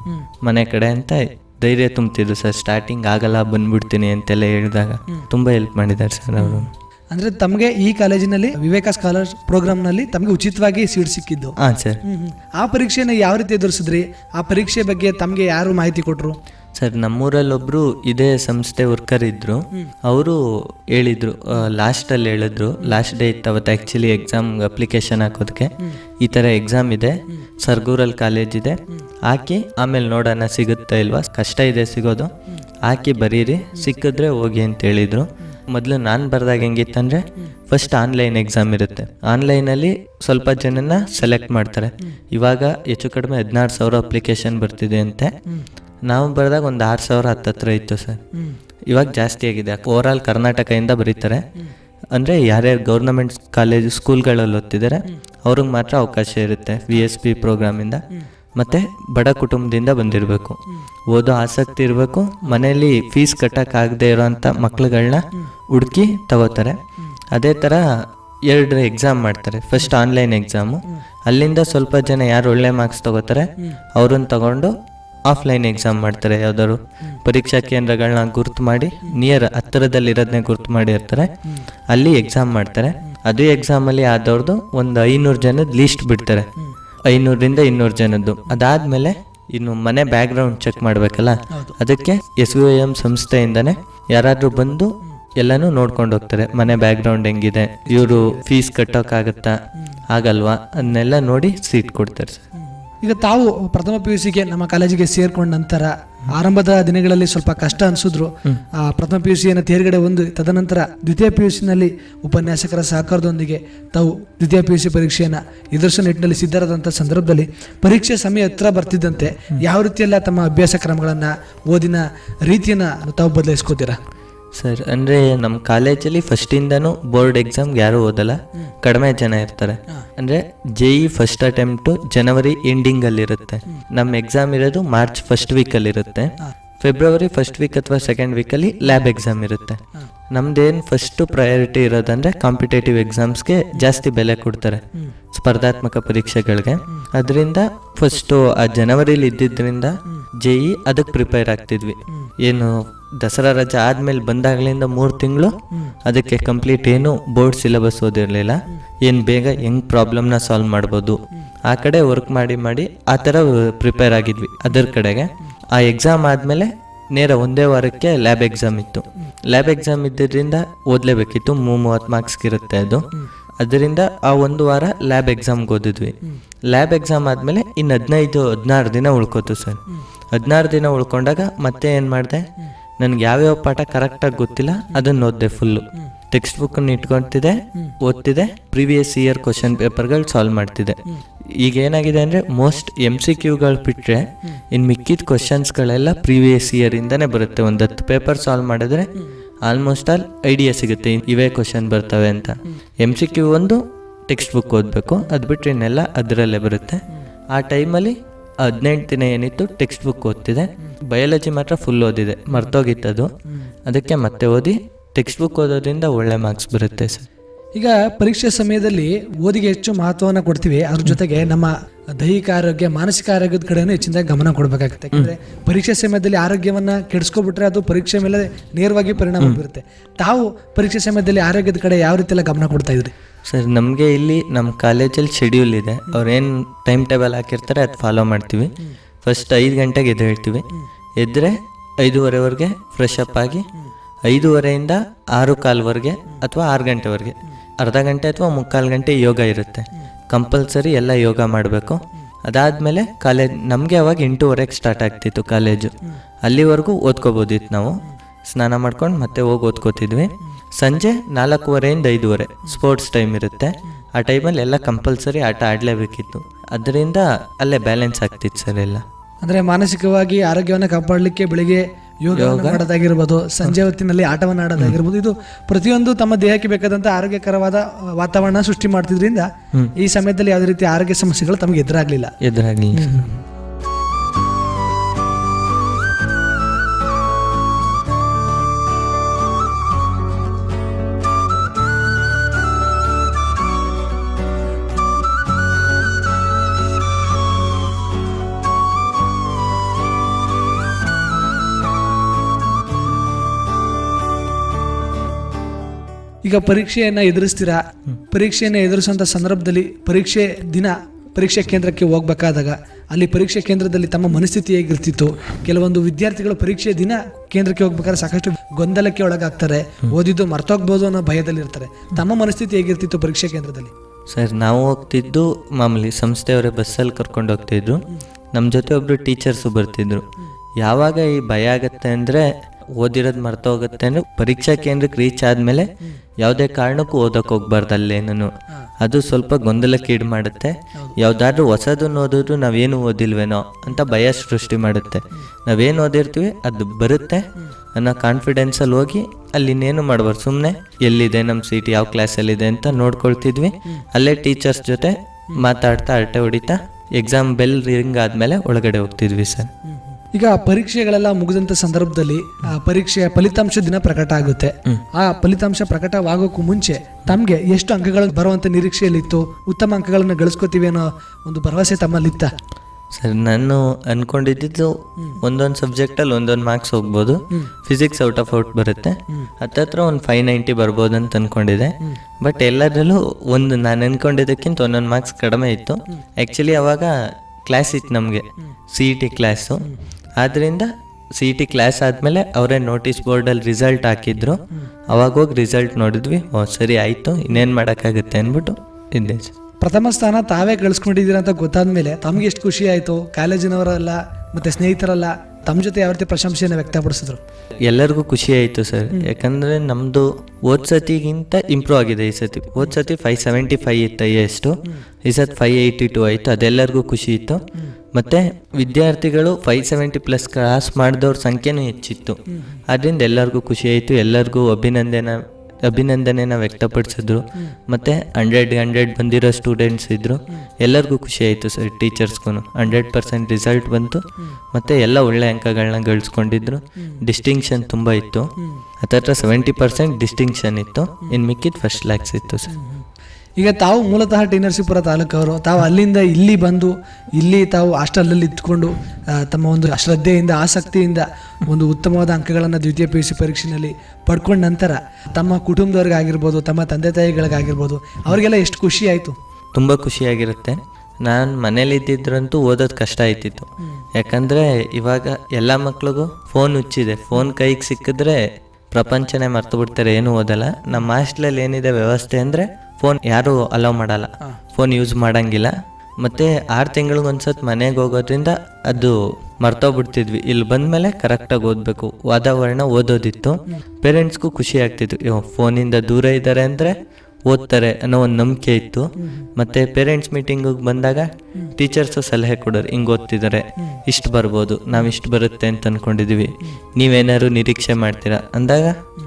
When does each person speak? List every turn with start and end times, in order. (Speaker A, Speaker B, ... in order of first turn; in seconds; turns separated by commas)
Speaker A: 0.4-6.7, Speaker B: 6.4-16.3, Speaker A: 11.6-12.0, Speaker A: 16.7-45.3, Speaker A: 46.0-48.2, Speaker A: 48.9-51.5, Speaker A: 52.1-58.0, Speaker A: 58.5-60.6, Speaker A: 61.1-66.8, Speaker A: 67.3-67.9, Speaker A: 68.5-74.7, Speaker A: 75.2-81.3, Speaker A: 81.9-86.5, Speaker A: 87.1-102.4, Speaker B: 91.5-91.8, Speaker B: 103.0-124.0, Speaker A: 124.5-173.1, Speaker A: 173.6-176.2, Speaker A: 176.7-182.5, Speaker A: 183.0-191.0, Speaker A: 191.6-199.1, Speaker A: 199.6-213.3, Speaker A: 213.8-217.3, Speaker B: 217.7-233.1, Speaker A: 233.4-240.7, Speaker A: 241.2-243.7, Speaker A: 244.2-269.0, Speaker B: 269.4-282.3, Speaker A: 272.3-272.8, Speaker A: 282.4-283.2, Speaker B: 282.9-283.4, Speaker B: 306.4-323.9, Speaker A: 324.3-330.2, Speaker A: 330.8-359.7, Speaker B: 360.1-372.5, Speaker A: 373.1-399.5, Speaker B: 399.8-407.4, Speaker A: 407.8-438.5, Speaker A: 439.0-442.7, Speaker B: 442.7-443.0, Speaker B: 443.6-459.4, Speaker A: 459.7-499.0, Speaker B: 489.2-489.4